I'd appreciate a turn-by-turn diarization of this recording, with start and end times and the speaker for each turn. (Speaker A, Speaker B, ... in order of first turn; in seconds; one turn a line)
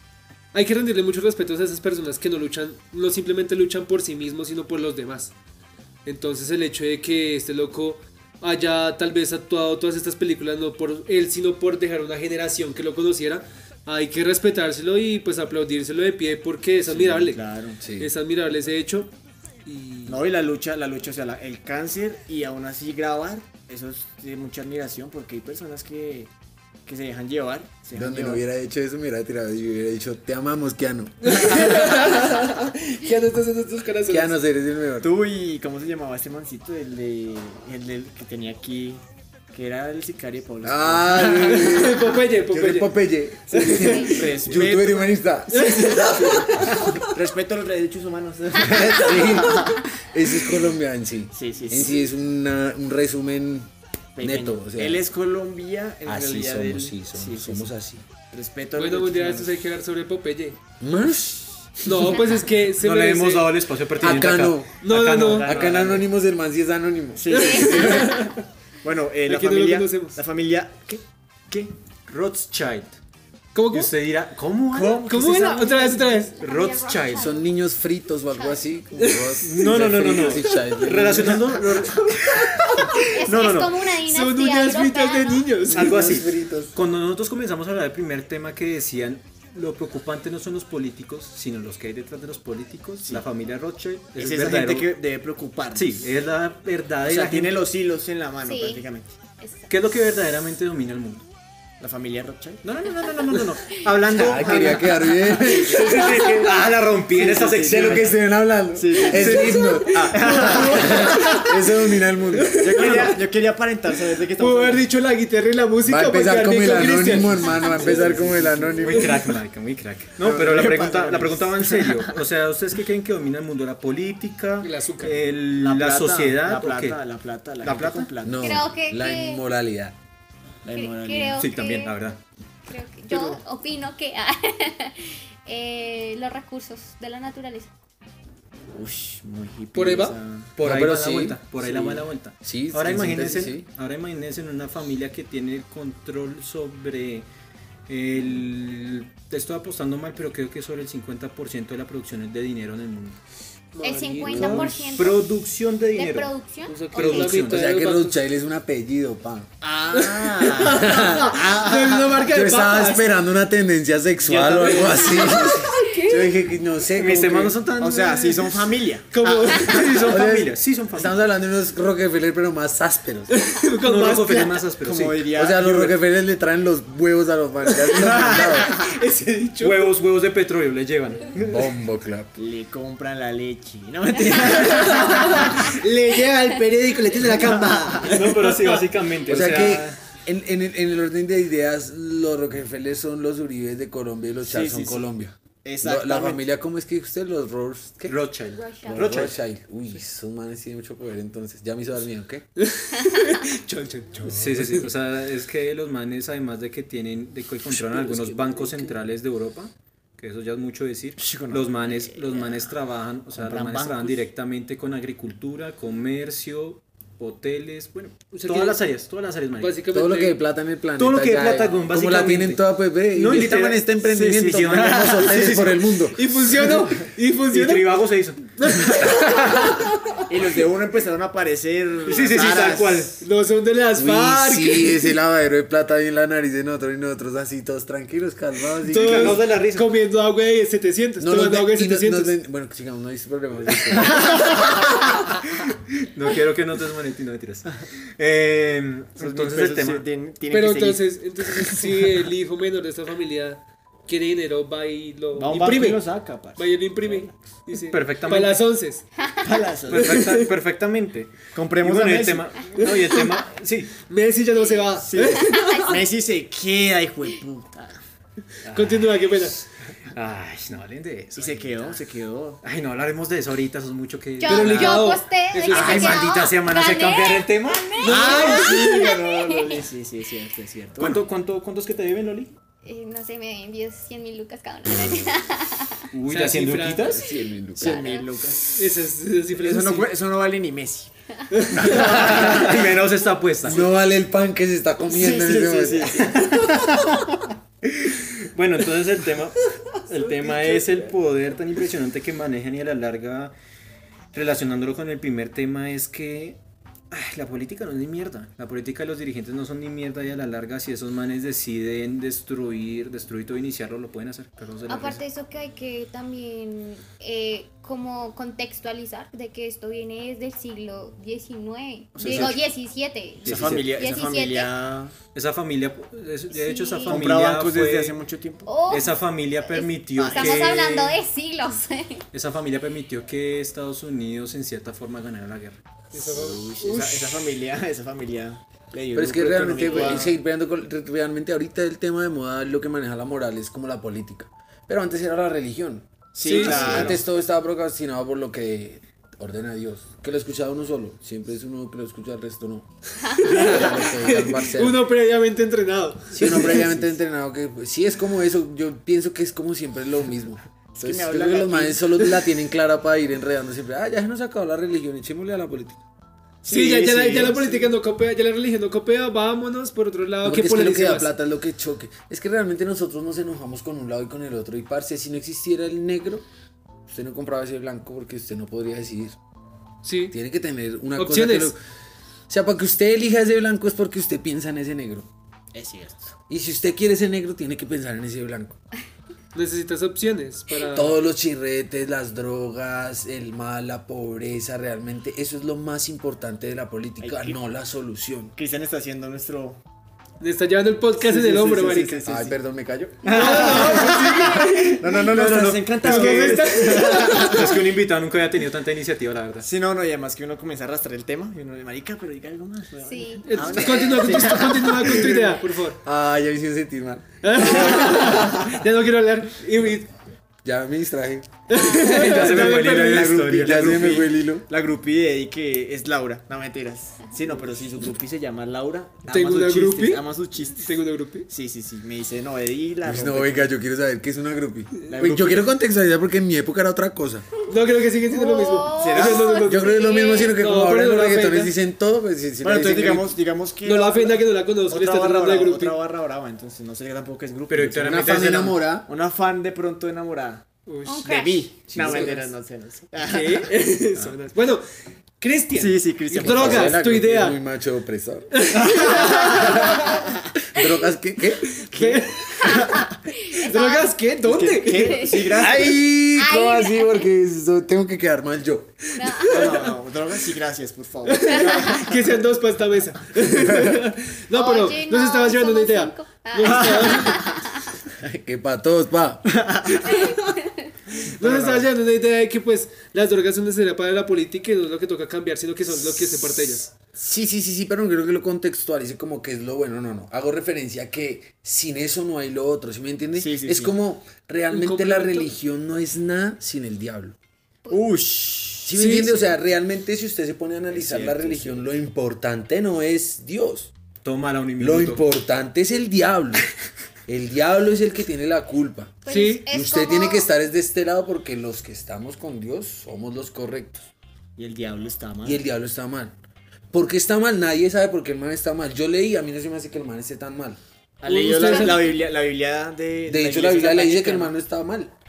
Speaker A: 0.5-5.3
Speaker A: 6.0-17.4
Speaker B: 16.9-17.8
Speaker C: 17.8-18.1
Speaker A: 18.0-19.1
Speaker A: 19.6-20.2
Speaker B: 20.1-26.3
Speaker B: 26.9-28.4
Speaker C: 27.9-31.9
Speaker A: 31.2-34.4
Speaker C: 34.1-35.1
Speaker B: 35.0-41.6
Speaker C: 40.6-46.9
Speaker A: 41.3-44.2
Speaker D: 43.8-44.1
Speaker B: 43.9-49.9
Speaker A: 45.5-46.8
Speaker C: 48.6-53.7
Speaker B: 51.3-52.0
Speaker B: 54.1-57.7
Speaker C: 54.2-55.0
Speaker C: 56.0-58.1
Speaker B: 58.2-59.6
Speaker A: 58.8-60.6
Speaker C: 60.8-62.2
Speaker A: 61.8-63.5
Speaker E: 62.8-66.0
Speaker C: 64.0-64.7
Speaker A: 64.8-65.5
Speaker C: 65.4-67.7
Speaker B: 65.5-66.0
Speaker B: 67.2-68.3
Speaker A: 67.3-68.4
Speaker D: 67.3-68.2
Speaker B: 68.8-71.7
Speaker A: 69.2-70.2
Speaker E: 72.1-73.0
Speaker A: 73.5-73.9
Speaker E: 73.7-75.3
Speaker B: 74.7-75.9
Speaker A: 75.0-76.3
Speaker D: 75.6-77.5
Speaker E: 76.4-77.3
Speaker C: 77.1-82.0
Speaker D: 78.3-78.6
Speaker A: 79.0-79.7
Speaker E: 79.4-82.1
Speaker A: 81.8-83.1
Speaker D: 83.0-85.6
Speaker E: 83.2-83.7
Speaker B: 83.3-83.7
Speaker A: 84.0-86.0
Speaker C: 85.7-86.7
Speaker E: 85.7-94.9
Speaker B: 94.2-96.1
Speaker E: 95.7-97.6
Speaker B: 97.0-99.2
Speaker D: 98.4-98.8
Speaker D: 99.4-99.7
Speaker E: 99.7-101.2
Speaker B: 101.8-102.8
Speaker E: 102.6-104.9
Speaker C: 104.1-106.3
Speaker B: 104.4-106.5
Speaker E: 105.5-108.1
Speaker B: 107.1-108.1
Speaker C: 107.5-112.7
Speaker B: 108.7-111.3
Speaker E: 109.1-109.7
Speaker A: 109.6-111.8
Speaker A: 112.3-113.1
Speaker B: 112.6-114.9
Speaker E: 112.8-113.2
Speaker A: 114.4-118.1
Speaker C: 115.8-119.2
Speaker B: 117.3-118.9
Speaker E: 118.8-127.0
Speaker B: 120.2-122.0
Speaker A: 124.6-125.2
Speaker B: 125.5-128.7
Speaker E: 127.6-128.1
Speaker C: 128.2-129.9
Speaker D: 128.4-129.4
Speaker B: 130.6-131.4
Speaker D: 130.7-132.0
Speaker E: 131.4-132.2
Speaker D: 132.7-137.7
Speaker A: 133.1-133.4
Speaker B: 138.7-140.6
Speaker A: 139.7-140.2
Speaker E: 140.6-147.2
Speaker C: 140.6-141.4
Speaker B: 141.6-142.1
Speaker C: 142.4-143.7
Speaker E: 147.9-153.2
Speaker A: 153.7-154.6
Speaker D: 153.8-155.2
Speaker C: 154.2-154.9
Speaker E: 154.2-157.6
Speaker D: 155.9-156.9
Speaker A: 156.9-158.2
Speaker C: 156.9-159.5
Speaker B: 159.6-161.0
Speaker A: 159.9-163.2
Speaker C: 160.7-167.6
Speaker B: 164.3-165.7
Speaker A: 164.7-166.3
Speaker E: 166.9-168.7
Speaker B: 167.8-170.2
Speaker A: 169.1-169.9
Speaker E: 169.5-171.2
Speaker C: 170.1-173.3
Speaker A: 173.3-174.7
Speaker E: 173.8-175.5
Speaker B: 174.8-175.9
Speaker C: 175.3-178.7
Speaker A: 177.8-179.9
Speaker B: 178.1-178.8
Speaker E: 179.6-181.7
Speaker C: 181.4-182.3
Speaker B: 182.3-185.8
Speaker A: 184.4-189.8
Speaker C: 187.1-187.7
Speaker B: 187.3-188.1
Speaker E: 188.0-190.0
Speaker C: 189.3-198.2
Speaker B: 194.4-195.1
Speaker B: 195.6-196.4
Speaker E: 198.1-199.3
Speaker D: 198.5-199.2
Speaker C: 198.9-202.4
Speaker A: 202.6-204.8
Speaker C: 204.2-204.8
Speaker E: 204.3-219.8
Speaker C: 207.7-208.9
Speaker B: 211.2-212.7
Speaker B: 213.3-214.2
Speaker A: 218.3-218.8
Speaker A: 219.6-220.4
Speaker C: 219.9-226.5
Speaker E: 220.9-225.9
Speaker B: 224.2-225.5
Speaker A: 226.1-228.0
Speaker E: 227.5-228.5
Speaker A: 228.6-230.2
Speaker B: 230.3-233.1
Speaker E: 232.0-233.2
Speaker A: 233.2-235.1
Speaker C: 233.9-239.4
Speaker E: 238.9-239.9
Speaker A: 238.9-242.3
Speaker C: 241.2-244.5
Speaker B: 244.1-244.4
Speaker A: 244.2-244.8
Speaker E: 246.0-250.1
Speaker B: 249.2-252.0
Speaker A: 250.5-256.0
Speaker B: 255.3-257.3
Speaker A: 256.6-259.0
Speaker E: 257.9-258.6
Speaker D: 259.2-259.5
Speaker B: 259.4-260.3
Speaker E: 259.9-263.9
Speaker A: 260.0-260.5
Speaker B: 261.5-262.5
Speaker A: 264.1-265.9
Speaker B: 265.0-268.0
Speaker D: 265.4-266.0
Speaker E: 268.6-269.2
Speaker A: 268.7-269.6
Speaker E: 270.1-272.0
Speaker B: 271.4-272.6
Speaker E: 272.6-275.1
Speaker D: 274.4-279.8
Speaker A: 274.4-276.2
Speaker E: 275.7-278.4
Speaker A: 278.0-279.1
Speaker B: 278.0-281.2
Speaker E: 281.0-282.5
Speaker D: 282.8-286.0
Speaker C: 284.9-285.4
Speaker E: 286.1-287.2
Speaker A: 286.3-287.2
Speaker C: 287.1-288.2
Speaker B: 287.8-288.9
Speaker D: 287.8-288.3
Speaker A: 288.7-290.1
Speaker B: 289.5-291.1
Speaker A: 291.5-292.3
Speaker B: 291.8-292.9
Speaker E: 291.9-293.9
Speaker C: 293.6-296.2
Speaker B: 295.1-297.3
Speaker E: 298.0-303.5
Speaker E: 304.3-306.6
Speaker E: 307.1-315.2
Speaker D: 314.9-324.7
Speaker B: 322.2-322.6
Speaker E: 322.2-322.6
Speaker E: 323.4-323.8
Speaker B: 323.4-325.1
Speaker C: 323.5-323.8
Speaker E: 325.3-328.2
Speaker D: 326.5-327.3
Speaker B: 327.1-328.8
Speaker D: 328.6-332.2
Speaker E: 328.8-331.2
Speaker B: 330.1-330.8
Speaker E: 332.3-335.8
Speaker A: 336.1-336.6
Speaker C: 336.1-337.4
Speaker B: 336.8-340.4
Speaker C: 339.1-352.9
Speaker B: 346.3-347.2
Speaker A: 346.4-347.1
Speaker A: 353.2-356.8
Speaker C: 353.4-355.0
Speaker C: 356.3-366.0
Speaker B: 356.7-357.1
Speaker B: 360.9-362.4
Speaker B: 366.6-367.9
Speaker A: 366.6-371.3
Speaker C: 370.4-376.4
Speaker C: 377.1-379.4
Speaker A: 380.0-380.3
Speaker C: 380.3-381.8
Speaker A: 381.1-381.7
Speaker C: 382.5-385.3
Speaker B: 385.7-386.4
Speaker C: 386.5-388.8
Speaker A: 389.5-391.2
Speaker C: 390.9-398.5
Speaker B: 397.2-397.6
Speaker B: 398.6-399.8
Speaker A: 400.4-402.5
Speaker C: 401.2-403.4
Speaker B: 401.6-402.4
Speaker B: 403.2-407.8
Speaker A: 403.3-405.0
Speaker E: 405.1-409.7
Speaker C: 405.3-405.7
Speaker A: 406.0-407.6
Speaker B: 409.6-415.6
Speaker D: 413.0-413.8
Speaker A: 413.4-416.0
Speaker C: 414.2-414.5
Speaker C: 415.0-415.3
Speaker C: 416.0-418.3
Speaker A: 417.4-420.1
Speaker B: 417.9-418.5
Speaker C: 420.6-424.6
Speaker A: 421.7-423.3
Speaker E: 421.9-424.2
Speaker B: 423.1-433.7
Speaker A: 429.3-431.5
Speaker C: 433.0-437.4
Speaker B: 435.1-435.6
Speaker A: 437.7-441.7
Speaker D: 438.3-440.5
Speaker B: 438.9-439.5
Speaker C: 439.3-443.3
Speaker B: 442.6-448.1
Speaker A: 443.8-446.0
Speaker E: 447.7-448.9
Speaker C: 447.9-449.1
Speaker B: 449.1-453.8
Speaker A: 450.9-451.2
Speaker D: 451.1-451.6
Speaker C: 451.9-452.5
Speaker A: 453.2-454.8
Speaker A: 455.4-457.6
Speaker B: 455.7-457.0
Speaker C: 456.3-460.0
Speaker A: 458.5-460.0
Speaker B: 459.1-459.5
Speaker D: 459.6-460.1
Speaker C: 460.7-462.1
Speaker A: 461.8-465.3
Speaker B: 462.1-463.1
Speaker D: 462.7-464.1
Speaker B: 464.4-466.0
Speaker D: 465.0-465.6
Speaker C: 465.5-469.0
Speaker D: 466.3-467.2
Speaker D: 469.2-469.7
Speaker A: 469.2-469.9
Speaker B: 469.4-472.1
Speaker A: 471.2-477.5
Speaker C: 473.6-474.0
Speaker D: 474.5-477.9
Speaker B: 476.9-477.5
Speaker C: 478.1-480.1
Speaker B: 479.5-480.2
Speaker D: 480.0-480.9
Speaker A: 481.3-486.9
Speaker C: 481.4-481.8
Speaker C: 485.9-497.4
Speaker B: 493.3-493.9
Speaker A: 494.7-495.5
Speaker B: 497.9-499.3
Speaker C: 498.8-503.9
Speaker A: 498.9-499.3
Speaker B: 500.9-501.9
Speaker E: 504.2-505.2
Speaker C: 504.8-506.7
Speaker C: 507.3-514.1
Speaker D: 509.2-510.4
Speaker A: 509.3-509.6
Speaker B: 514.6-515.6
Speaker C: 515.4-516.4
Speaker C: 516.9-520.8
Speaker B: 521.2-524.5
Speaker A: 521.2-522.1
Speaker D: 521.5-522.1
Speaker C: 523.3-525.1